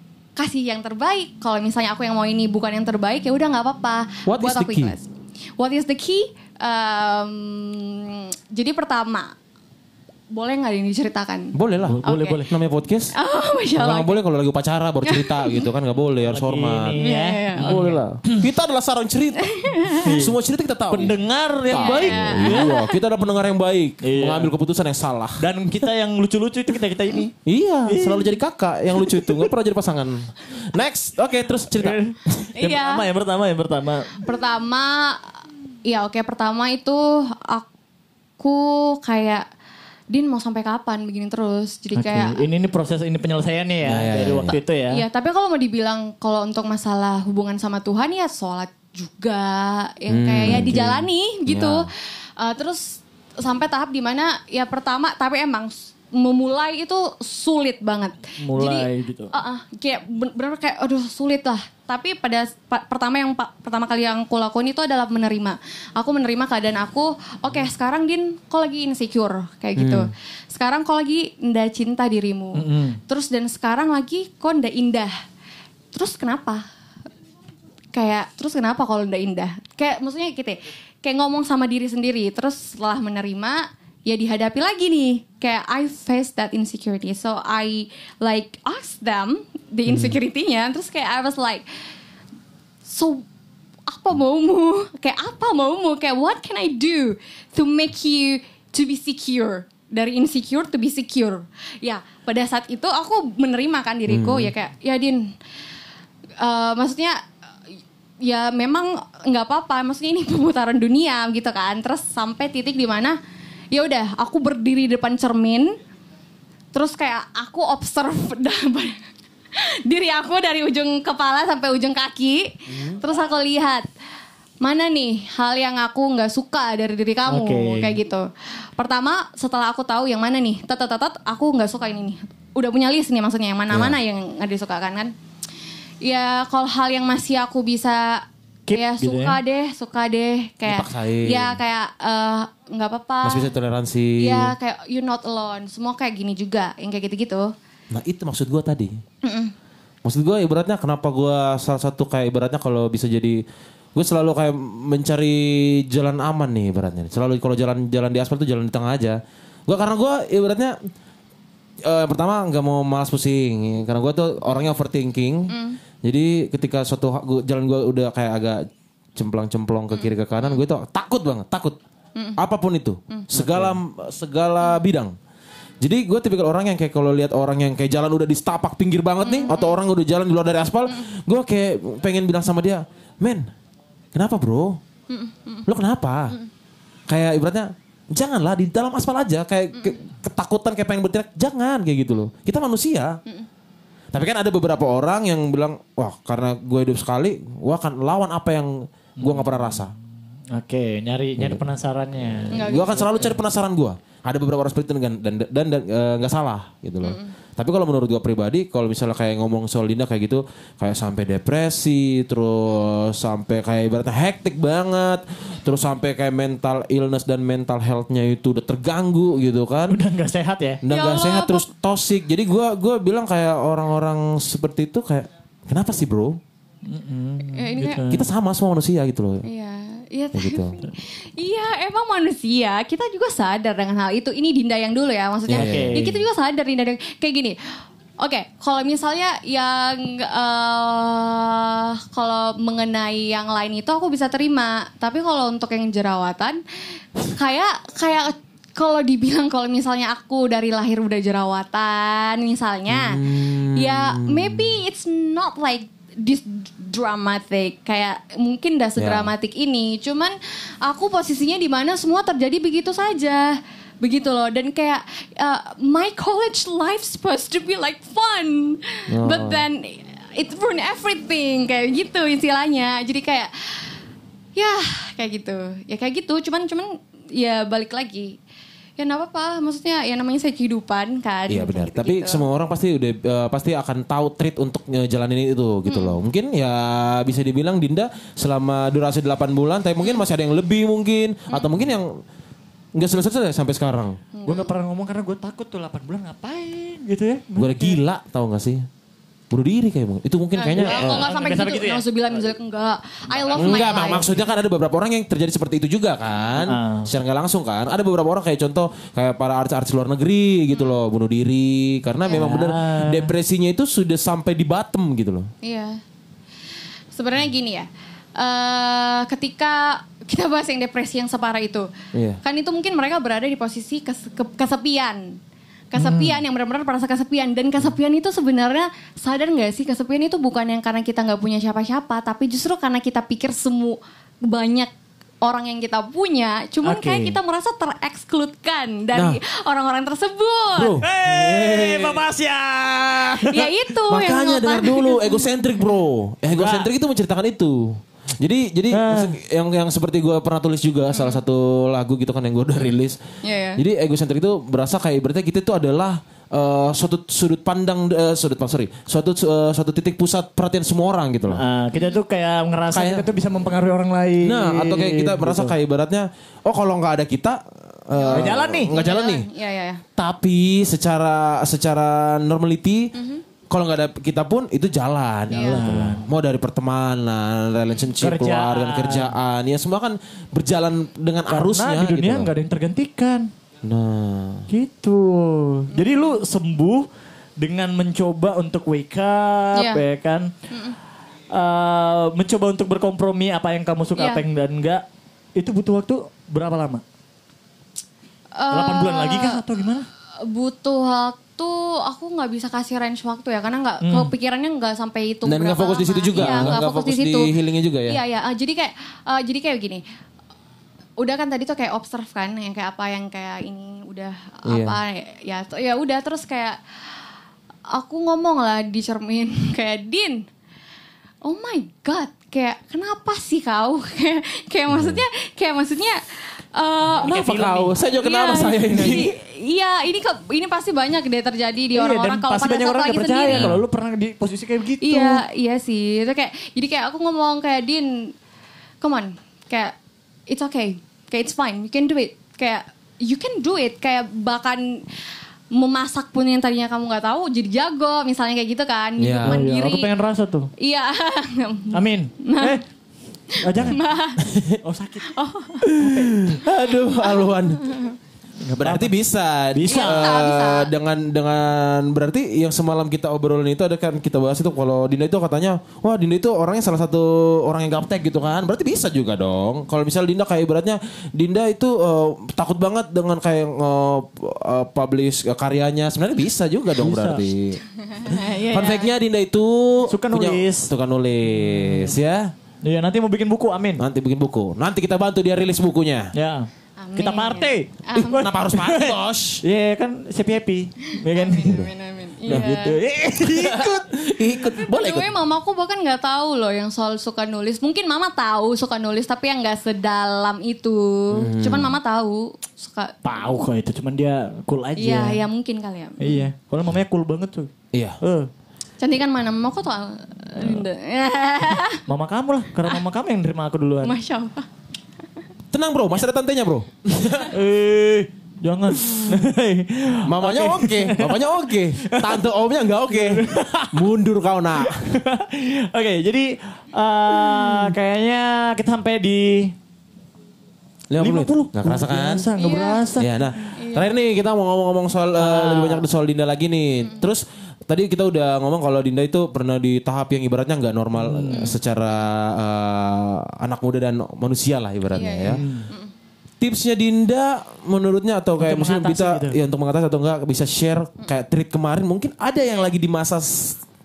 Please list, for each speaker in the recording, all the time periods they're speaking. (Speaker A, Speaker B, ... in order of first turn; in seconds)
Speaker A: 0.4-9.3, 10.3-12.4, 13.1-14.2, 15.1-15.7, 17.0-17.8, 19.4-20.1, 21.7-23.0, 32.6-33.1, 34.2-35.3, 35.9-37.7, 38.4-39.5, 40.1-42.4, 44.9-75.1, 75.9-76.6, 77.9-91.7, 92.8-93.2, 93.9-105.3, 106.4-107.2, 108.2-113.2, 113.7-115.8, 116.7-119.0, 119.5-123.8, 124.6-135.1, 136.0-143.5, 144.2-147.5, 149.2-149.5, 165.5-165.8, 179.2-179.8, 185.1-185.7, 202.5-203.3, 207.0-207.3, 220.9-221.7, 227.5-228.1, 229.4-237.6, 238.2-246.6, 247.2-273.9, 274.6-278.4, 279.0-282.4, 285.9-286.2, 294.3-294.7, 300.6-304.4, 312.3-312.5, 315.6-316.0, 317.1-321.9, 322.4-325.4, 325.9-334.9, 335.4-341.0, 343.5-345.5, 351.1-351.4, 353.4-353.8, 368.1-370.0, 373.2-373.4, 375.5-375.9, 385.9-386.4, 389.7-390.0, 390.7-391.0, 394.2-394.4, 398.6-399.6, 400.4-407.5, 408.1-410.0, 411.2-416.8, 417.9-420.5, 421.4-433.7, 435.0-438.3, 439.0-439.9, 440.5-445.1, 445.7-450.1, 450.8-452.8, 453.5-454.5, 455.2-455.9, 457.2-458.1, 459.9-460.9, 477.9-479.1, 487.0-488.5, 491.1-493.0, 494.6-503.5, 505.0-506.5, 509.0-512.0, 514.0-514.7, 532.6-534.1, 545.1-546.1
Speaker B: 4.3-5.0, 11.5-13.2, 13.8-17.0, 17.6-21.1, 21.7-25.4, 27.4-32.5, 43.9-44.6, 50.1-51.9, 69.8-70.1, 104.1-104.5, 133.7-134.0, 140.7-141.6, 143.2-144.5, 147.9-149.0, 150.0-153.4, 153.9-160.8, 161.8-171.8, 172.4-175.2, 175.8-183.5, 184.1-184.8, 185.7-186.4, 187.1-193.2, 194.1-199.9, 202.3-220.0, 220.8-226.4, 228.1-229.5, 230.3-230.8, 235.5-236.1, 252.9-254.8, 259.0-259.3, 269.1-269.6, 281.5-292.1, 292.9-294.2, 297.6-298.9, 299.5-301.3, 303.6-315.5, 322.1-322.4, 339.1-339.4, 340.8-342.2, 344.1-353.2, 353.8-361.6, 362.9-363.3, 364.4-369.5, 370.2-373.1, 373.7-382.5, 383.8-384.7, 405.4-408.2, 414.7-415.0, 424.9-425.2, 427.2-429.3, 433.5-433.8, 449.2-449.6, 454.4-454.8, 455.8-457.9, 458.8-482.5, 484.0-486.3, 488.1-489.6, 491.6-491.9, 492.5-492.8, 493.4-495.3, 501.3-502.0, 507.9-508.2, 515.7-517.5, 520.3-525.0, 531.1-532.5, 533.2-545.6, 546.6-553.8
Speaker C: 11.8-12.5, 16.3-18.5, 19.9-20.4, 20.9-22.7, 24.0-24.5, 25.4-27.3, 27.9-28.4, 28.9-29.5, 31.8-34.2, 42.0-45.0, 50.5-50.7, 58.4-59.3, 72.5-73.0, 127.3-128.0, 138.7-139.4, 173.3-173.8, 199.2-199.9, 200.5-202.9, 219.9-220.8, 226.9-228.2, 235.5-236.2, 294.4-298.0, 300.8-302.4, 303.3-304.2, 306.6-307.1, 312.3-313.3, 326.0-326.4, 336.8-337.4, 341.0-343.7, 346.5-346.9, 348.9-349.4, 361.5-365.7, 368.3-368.9, 375.6-376.3, 378.2-379.3, 381.5-383.5, 384.7-387.1, 387.6-390.5, 391.5-395.0, 395.6-397.0, 398.7-400.1, 404.0-404.3, 406.4-406.8, 431.9-435.4, 449.4-450.7, 451.9-452.9, 453.6-454.0, 454.8-455.3, 458.6-459.1, 459.7-460.3, 477.0-477.5, 480.1-480.9, 481.5-482.2, 482.8-484.0, 486.3-487.9, 488.6-491.8, 492.5-494.1, 503.2-505.4, 506.2-508.5, 512.1-514.2, 517.5-522.5, 523.1-524.1, 524.8-529.8, 531.2-533.3, 535.4-536.1, 541.2-541.8, 545.5-545.9, 548.6-549.6